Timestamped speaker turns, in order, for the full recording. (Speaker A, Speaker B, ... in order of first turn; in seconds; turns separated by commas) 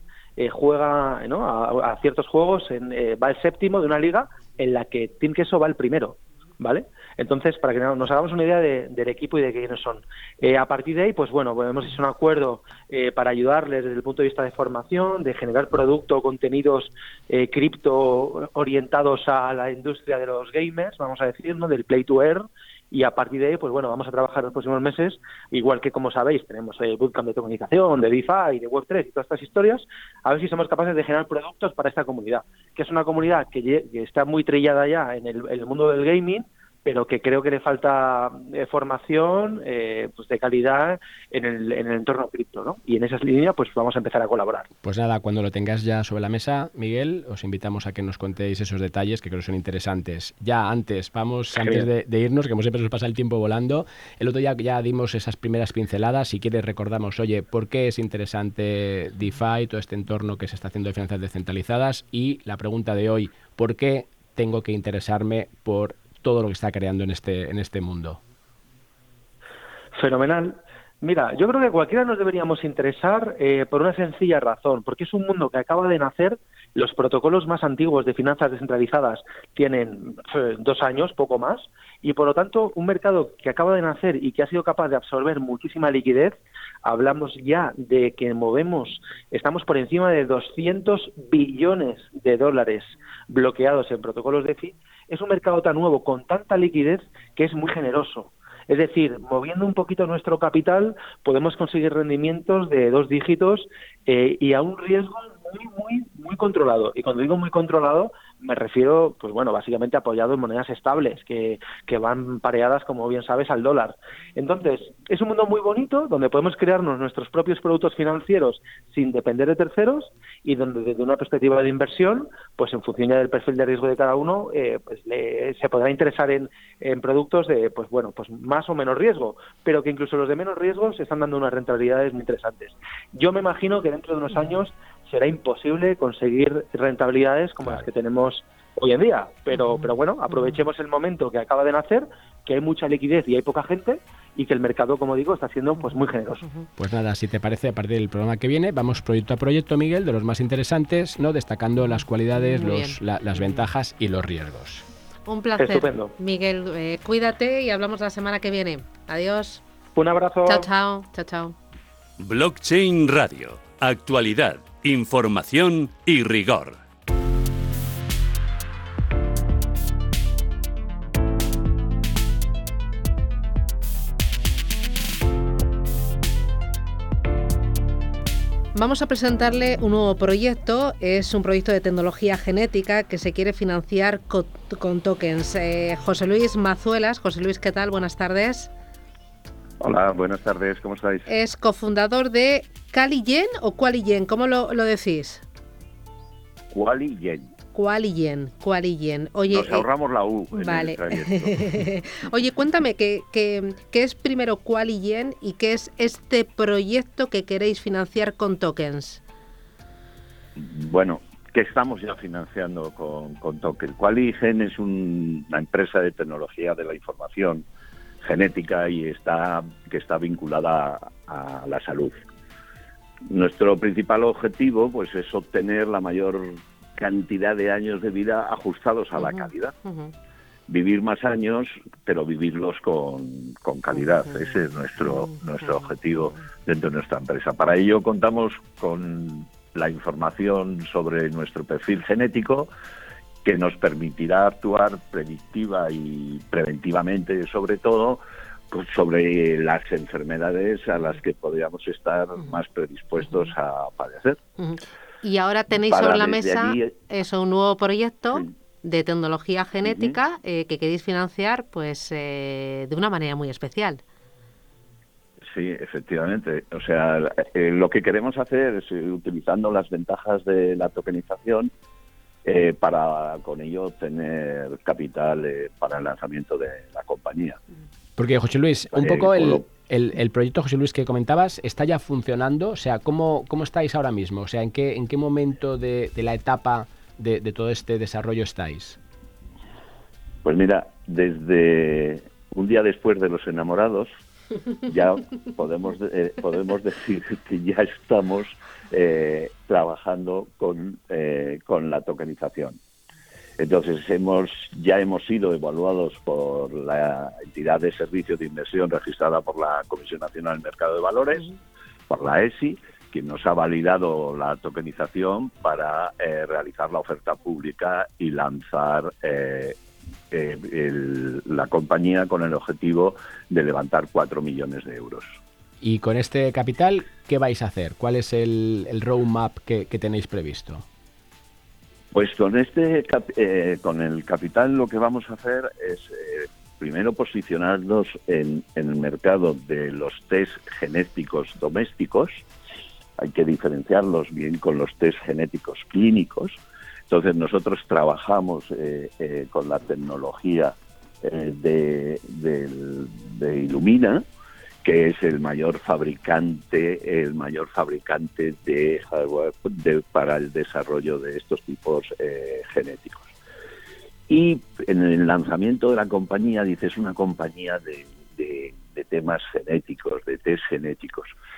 Speaker A: 0.4-44.7, Speaker B: 44.8-68.2, Speaker A: 51.6-51.9, Speaker A: 69.9-146.4, Speaker B: 146.8-154.8, Speaker C: 152.4-153.0, Speaker C: 155.3-159.6, Speaker A: 155.6-156.1, Speaker A: 159.9-160.7, Speaker C: 160.4-161.5, Speaker D: 162.2-166.8, Speaker C: 178.7-188.7, Speaker E: 189.8-191.2, Speaker C: 191.3-195.4, Speaker E: 196.7-197.5, Speaker C: 197.7-199.8, Speaker E: 199.5-201.8, Speaker C: 200.5-209.2, Speaker E: 210.6-217.7, Speaker E: 218.2-222.2, Speaker E: 223.3-229.7, Speaker C: 229.2-230.1, Speaker E: 230.7-242.7, Speaker E: 243.4-254.4, Speaker C: 254.6-264.0, Speaker E: 255.7-256.9, Speaker E: 259.8-260.2, Speaker E: 265.5-271.7, Speaker E: 272.4-277.6, Speaker B: 278.2-289.0, Speaker E: 278.9-279.6, Speaker E: 290.4-294.2, Speaker E: 294.9-302.8, Speaker E: 303.6-311.5, Speaker E: 312.1-319.8, Speaker E: 320.3-325.4, Speaker B: 325.8-330.8, Speaker E: 332.1-342.4, Speaker E: 343.2-354.2, Speaker E: 354.8-363.3, Speaker E: 364.3-371.3